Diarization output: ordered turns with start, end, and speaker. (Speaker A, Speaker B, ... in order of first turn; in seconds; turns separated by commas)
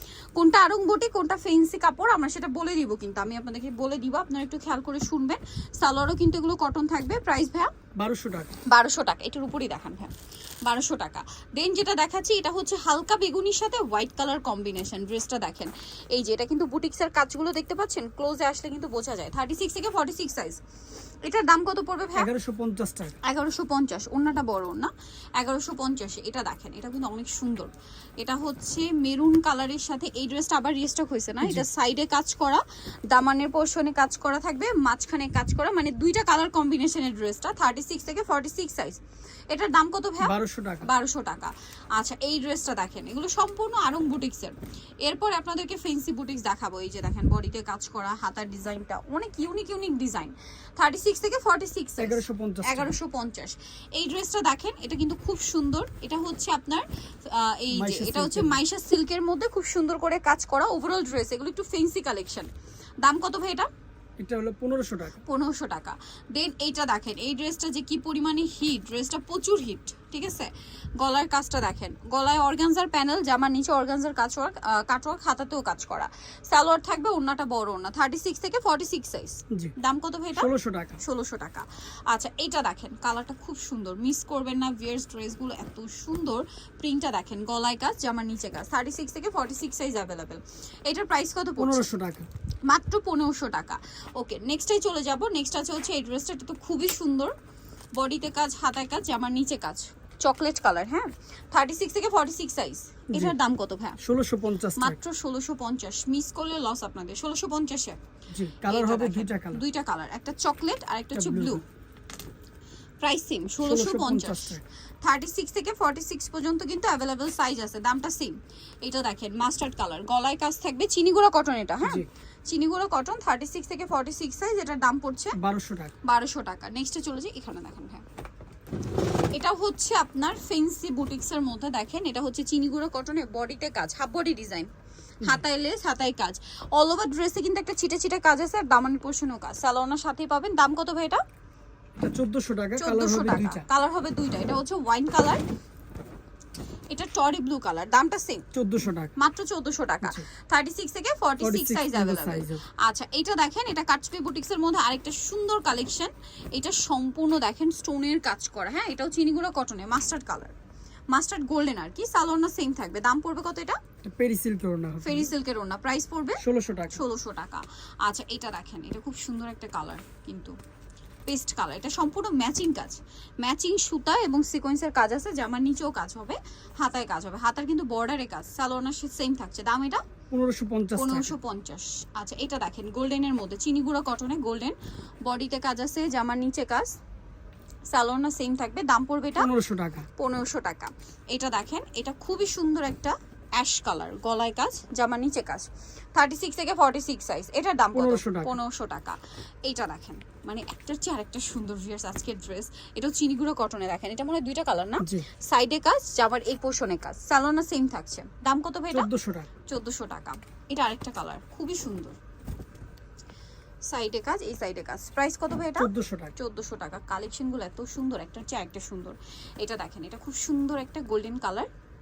Speaker A: 0.4-7.7, Speaker B: 8.0-8.6, Speaker A: 8.7-10.1, Speaker A: 10.6-20.6, Speaker A: 21.3-22.3, Speaker B: 22.2-23.2, Speaker A: 23.2-62.5, Speaker B: 31.4-31.7, Speaker B: 40.2-40.9, Speaker B: 52.0-52.9, Speaker B: 57.7-58.6, Speaker A: 63.0-63.7, Speaker B: 64.2-65.2, Speaker A: 65.2-91.9, Speaker B: 80.4-81.0, Speaker B: 91.6-92.3, Speaker A: 92.7-97.3, Speaker A: 98.0-104.0, Speaker B: 104.0-105.0, Speaker A: 104.8-108.0, Speaker B: 108.3-109.6, Speaker A: 108.6-111.6, Speaker B: 111.1-111.6, Speaker A: 113.0-125.4, Speaker B: 113.6-114.6, Speaker B: 125.3-125.9, Speaker A: 126.0-128.0, Speaker A: 129.3-134.7, Speaker A: 135.2-141.2, Speaker B: 142.0-143.7, Speaker A: 142.8-145.4, Speaker A: 146.9-148.4, Speaker B: 148.5-149.1, Speaker A: 149.2-160.5, Speaker B: 151.4-152.7, Speaker A: 161.1-163.8, Speaker B: 164.0-165.3, Speaker A: 165.0-166.4, Speaker B: 166.4-167.0, Speaker A: 166.9-170.6, Speaker A: 171.3-180.0, Speaker B: 180.3-181.3, Speaker A: 181.0-186.9, Speaker A: 187.9-189.5, Speaker B: 189.4-190.1, Speaker A: 190.2-209.1, Speaker B: 197.9-198.6, Speaker B: 205.0-205.3, Speaker B: 208.9-209.5, Speaker A: 209.7-212.2, Speaker A: 213.9-221.7, Speaker B: 215.8-216.3